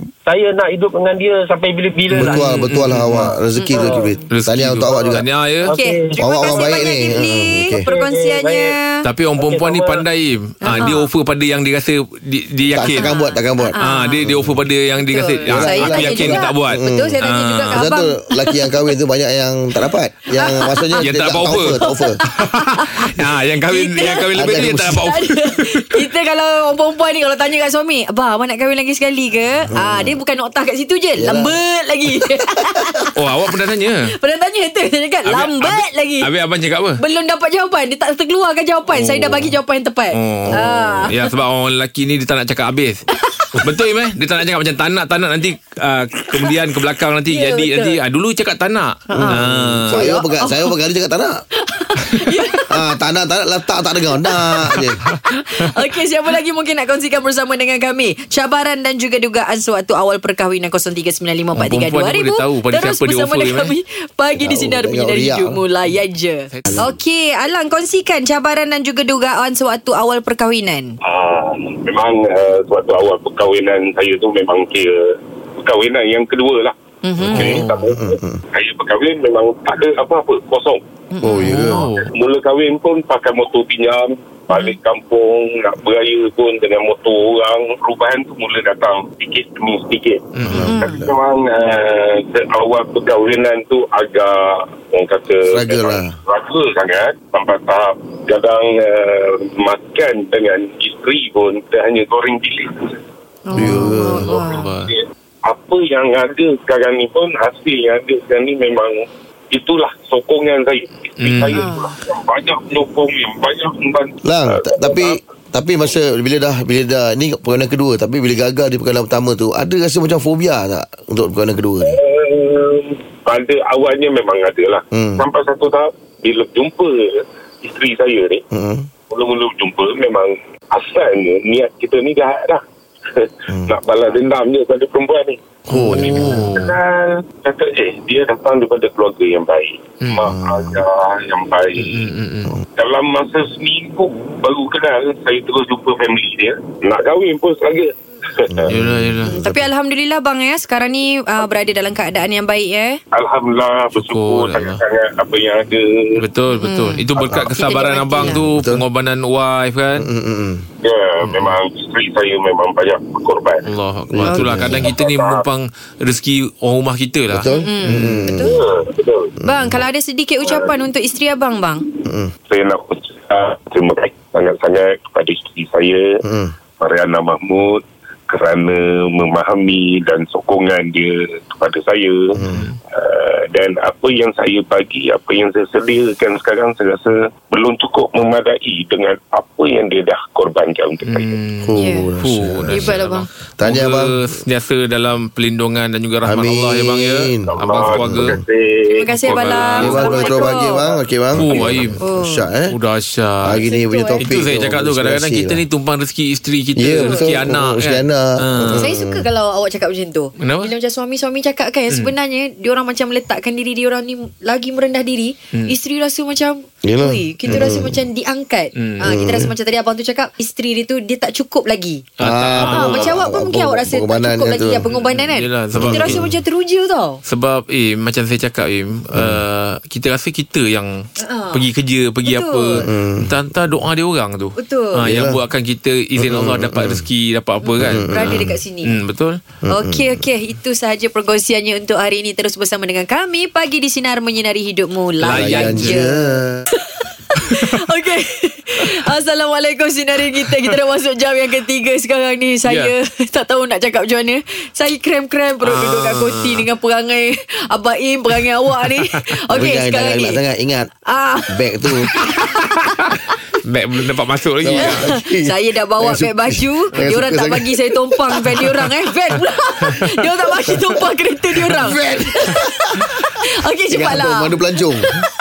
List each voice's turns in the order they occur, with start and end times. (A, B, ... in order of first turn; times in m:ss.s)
0:00.2-0:02.4 A
0:02.1-0:03.3 B
0:02.2-0:05.2 C
0:03.5-0:04.2 D
0:03.8-0:04.0 A
0:04.3-0:05.7 B
0:05.6-0:06.9 A
0:05.7-0:09.0 D
0:06.2-0:07.8 C
0:07.9-0:08.7 A
0:09.0-0:13.0 B
0:09.4-0:10.0 A
0:10.6-0:11.1 D
0:12.7-0:14.6 C
0:12.9-0:14.2 D
0:13.8-0:17.9 B
0:15.0-0:18.8 D
0:15.4-0:22.2 C
0:20.3-0:21.1 D
0:21.0-0:21.8 B
0:21.6-0:23.1 D
0:22.3-0:26.1 B
0:23.6-0:33.1 D
0:24.3-0:25.1 C
0:29.7-0:30.2 C
0:31.2-0:31.6 C
0:33.1-0:34.1 B
0:34.0-0:36.3 D
0:35.2-0:37.0 B
0:37.0-0:41.2 D
0:38.9-0:39.6 B
0:40.1-0:43.0 B
0:40.4-0:41.1 C
0:43.3-0:43.6 D
0:43.6-0:50.1 B
0:47.3-0:48.0 D
0:49.1-0:50.7 D
0:49.1-0:51.3 C
0:51.6-0:52.8 D
0:52.7-0:55.0 C
0:54.2-0:54.6 D
0:55.0-0:55.7 B
0:55.3-1:11.0 D
1:01.5-1:03.7 B
1:04.4-1:05.6 C
1:06.5-1:06.9 B
1:11.0-1:15.0 E
1:15.6-1:16.7 E
1:17.0-1:17.6 D
1:17.2-1:17.8 B
1:17.2-1:18.4 C
1:17.3-1:20.8 E
1:21.1-1:21.8 D
1:21.2-1:21.8 C
1:21.4-1:22.0 B
1:21.9-1:42.9 E
1:24.5-1:24.8 D
1:30.3-1:30.7 B
1:30.4-1:31.1 C
1:30.6-1:31.1 D
1:35.5-1:36.1 C
1:43.5-1:44.7 D
1:43.5-1:44.3 C
1:43.6-1:44.9 B
1:44.5-1:49.0 E
1:49.5-1:55.2 E
1:51.2-1:51.7 B
1:51.5-1:51.9 D
1:54.2-2:02.0 C
2:01.8-2:07.0 E
2:04.9-2:05.2 C
2:07.6-2:08.4 E
2:08.5-2:08.9 C
2:09.1-2:12.6 E
2:13.1-2:15.4 E
2:13.5-2:13.7 C
2:15.7-2:16.7 B
2:15.7-2:16.4 C
2:16.1-2:22.0 E
2:20.0-2:20.3 B
2:20.2-2:20.8 C
2:21.8-2:22.5 B
2:22.8-2:28.7 E
2:28.5-2:29.7 C
2:28.7-2:29.4 B
2:29.2-2:33.0 D
2:33.1-2:36.1 E
2:33.9-2:34.8 B
2:36.2-2:40.1 B
2:36.5-2:38.4 D
2:37.2-2:37.5 C
2:38.2-2:38.8 C
2:40.0-2:40.6 C
2:40.8-2:43.6 E
2:41.2-2:41.5 B
2:43.6-2:48.3 B
2:44.1-2:44.9 C
2:44.2-2:44.8 D
2:44.7-2:45.4 E
2:47.3-2:48.6 C
2:47.6-2:48.6 D
2:48.4-2:49.3 E
2:49.4-2:51.9 D
2:49.5-2:49.8 C
2:50.4-2:50.7 E
2:52.0-2:52.3 C
2:52.5-2:56.1 E
2:56.2-2:56.5 C
2:56.8-3:02.4 E
3:02.3-3:02.6 C
3:02.4-3:02.8 B
3:02.9-3:11.4 E
3:11.0-3:18.4 B
3:11.6-3:13.0 C
3:11.7-3:12.1 D
3:12.7-3:13.2 D
3:13.6-3:14.2 C
3:16.2-3:18.4 C
3:17.5-3:20.3 E
3:18.9-3:20.9 D
3:19.2-3:20.3 B
3:19.8-3:22.7 C
3:21.3-3:22.0 B
3:21.5-3:22.5 D
3:22.7-3:23.6 B
3:23.4-3:25.6 C
3:23.6-3:24.3 D
3:24.2-3:28.9 B
3:26.8-3:29.3 C
3:27.0-3:27.3 D
3:28.7-3:42.0 D
3:30.4-3:30.7 B
3:36.8-3:38.0 C
3:37.5-3:37.7 B
3:38.8-3:39.1 B
3:39.0-3:39.5 C
3:42.2-3:43.2 B
3:42.2-3:44.9 C
3:42.6-3:47.2 D
3:44.9-3:46.3 B
3:45.7-3:46.3 C
3:47.2-3:59.4 B
3:49.1-3:49.4 C
3:51.2-3:51.7 D
3:52.2-3:52.8 D
3:52.8-3:53.4 C
3:54.6-3:55.0 D
3:55.0-3:55.4 C
3:56.2-3:57.0 C
3:57.6-3:58.9 D
3:57.8-3:58.6 C
3:59.6-4:00.2 C
3:59.7-4:20.4 D
4:05.2-4:06.0 B
4:05.3-4:06.6 C
4:12.6-4:12.9 B
4:15.6-4:16.6 B
4:18.4-4:19.0 B
4:19.5-4:20.9 C
4:21.0-4:21.5 D
4:21.5-4:22.1 C
4:22.1-4:22.7 D
4:23.6-4:25.1 B
4:24.6-4:28.6 C
4:24.7-4:34.6 D
4:26.9-4:27.3 B
4:29.8-4:30.1 B
4:31.6-4:31.9 B
4:31.8-4:33.0 C
4:33.9-4:35.2 C